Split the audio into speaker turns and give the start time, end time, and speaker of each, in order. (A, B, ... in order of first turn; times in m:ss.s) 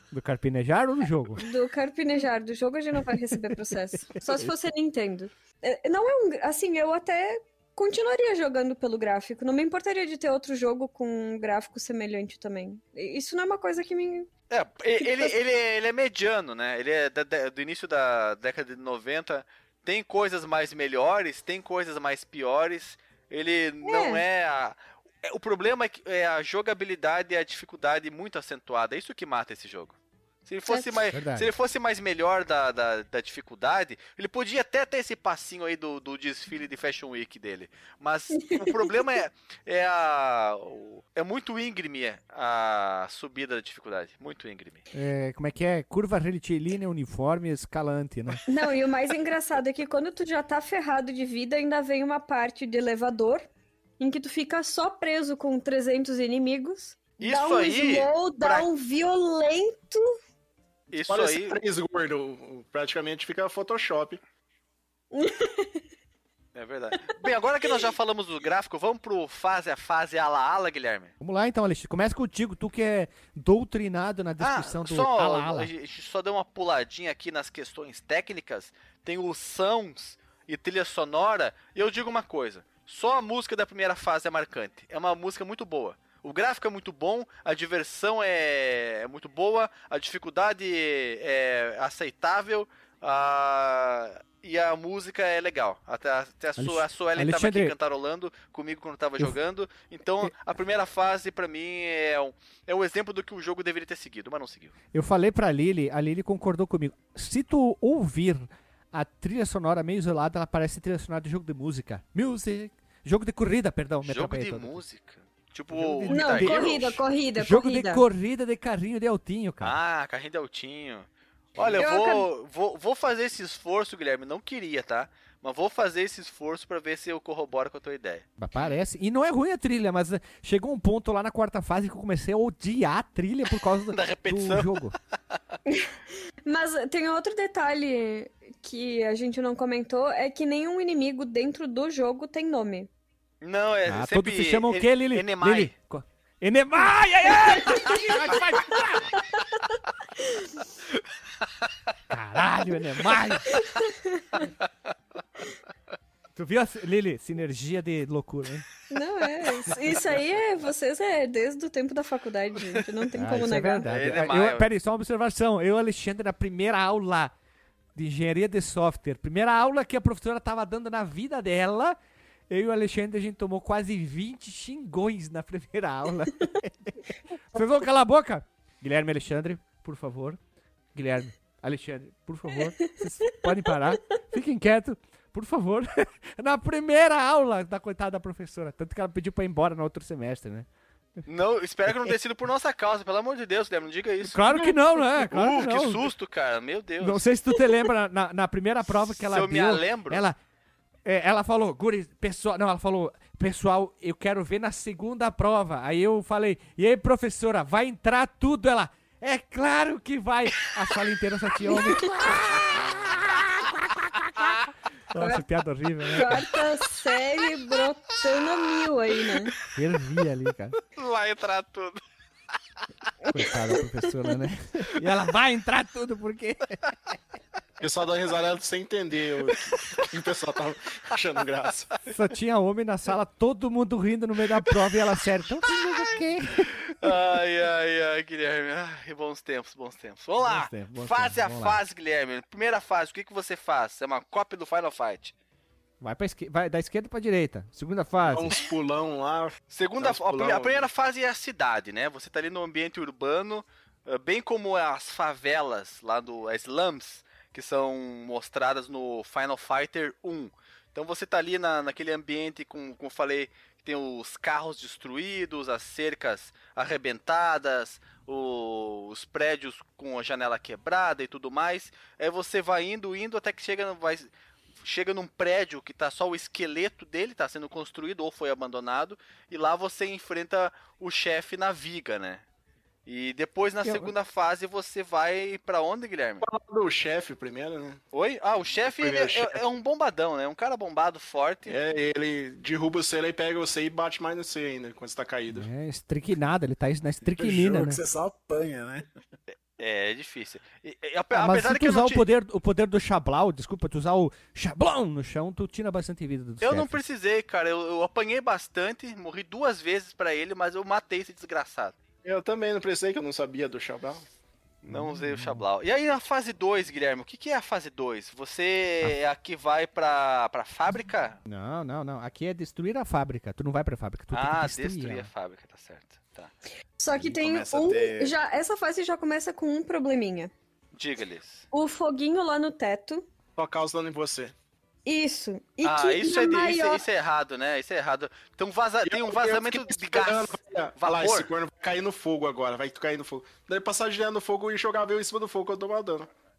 0:00.1-0:01.4 A
0:01.4-0:14.3 B
0:04.1-0:04.5 A
0:14.5-0:44.8 C
0:15.0-0:15.3 B
0:23.8-0:24.2 B
0:30.7-0:30.9 B
0:31.1-0:31.5 A
0:38.5-0:38.9 B
0:44.9-0:48.4 A
0:48.5-0:53.4 B
0:54.0-1:00.0 B
0:57.2-0:58.7 C
1:00.9-1:04.2 D
1:00.9-1:01.6 C
1:05.1-1:05.8 B
1:06.5-1:11.1 C
1:11.2-1:15.7 A
1:14.4-1:44.7 C
1:36.6-1:37.7 A
1:44.9-1:54.8 A
1:54.0-1:57.0 C
1:55.7-1:56.8 A
1:56.1-1:58.0 B
1:57.4-1:59.8 A
1:59.6-2:08.8 C
2:01.8-2:02.2 B
2:08.4-2:14.9 A
2:13.9-2:14.7 C
2:16.4-2:22.9 B
2:23.4-2:25.7 C
2:23.9-2:29.1 A
2:27.4-2:29.4 B
2:27.6-2:28.1 C
2:32.1-2:33.4 A
2:33.6-2:34.5 B
2:36.4-2:38.6 A
2:38.9-2:43.9 B
2:43.1-2:47.3 A
2:43.9-2:44.7 C
2:47.9-2:52.0 A
2:52.5-2:57.0 A
2:57.5-3:00.4 A
3:00.9-3:10.7 A
3:11.2-3:17.2 C
3:14.2-3:16.0 A
3:17.0-3:20.4 A
3:19.2-3:20.2 C
3:21.0-3:36.4 A
3:31.6-3:32.1 B
3:32.9-3:33.3 C
3:34.4-3:34.6 C
3:35.2-3:35.4 B
3:36.0-3:39.5 B
3:38.4-3:39.6 C
3:39.7-3:40.8 A
3:40.9-3:42.0 C
3:43.2-3:43.6 B
3:43.3-3:46.8 A
3:47.8-3:49.6 D
3:49.5-3:50.1 C
3:50.1-3:52.0 D
3:52.1-3:56.7 A
3:55.7-3:56.0 C
3:56.8-4:05.3 C
4:00.4-4:01.8 A
4:06.0-4:08.5 A
4:08.2-4:10.8 D
4:09.7-4:34.3 C
4:34.8-4:42.4 C
4:43.0-4:46.4 C
4:46.4-4:48.0 D
4:48.1-4:51.7 C
4:48.8-4:49.6 D
4:51.6-4:55.7 D
4:55.5-4:58.0 A
4:57.2-4:59.1 E
4:59.8-5:02.2 C
5:01.3-5:07.0 A
5:06.6-5:12.0 C
5:12.2-5:14.2 D
5:14.8-5:21.4 C
5:14.8-5:15.6 A
5:21.5-5:25.3 A
5:24.3-5:26.5 C
5:27.0-5:30.5 B
5:27.1-5:28.4 E
5:30.9-5:31.6 C
5:31.7-5:33.3 B
5:33.6-5:34.5 D
5:35.0-5:37.0 B
5:35.8-5:41.5 C
5:39.0-5:46.3 D